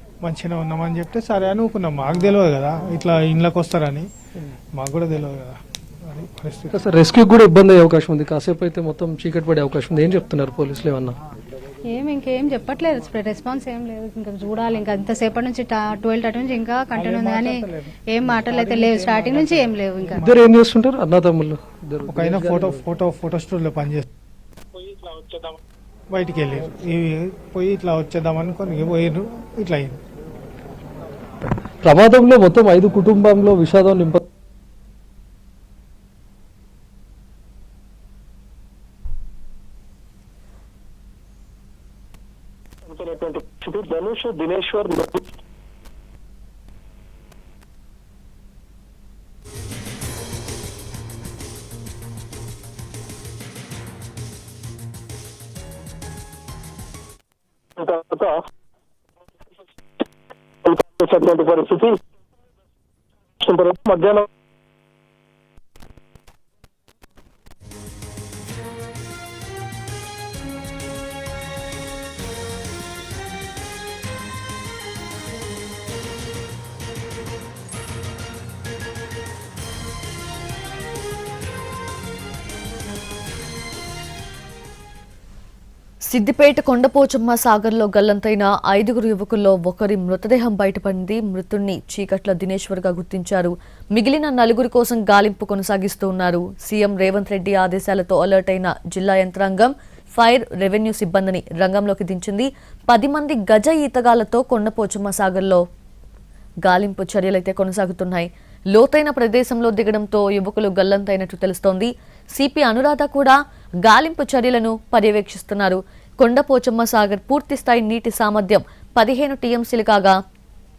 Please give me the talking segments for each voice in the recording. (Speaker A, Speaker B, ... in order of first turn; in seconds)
Speaker A: 0.2-4.1, 4.7-6.7, 16.9-20.3, 22.1-24.1, 24.8-25.6, 26.1-30.0
Speaker B: 6.7-11.2, 20.2-22.8, 31.8-34.2
Speaker C: 11.9-20.2
Speaker D: 42.9-44.5, 57.8-58.4, 60.6-62.0, 63.4-64.2
Speaker E: 86.1-105.6, 106.6-120.2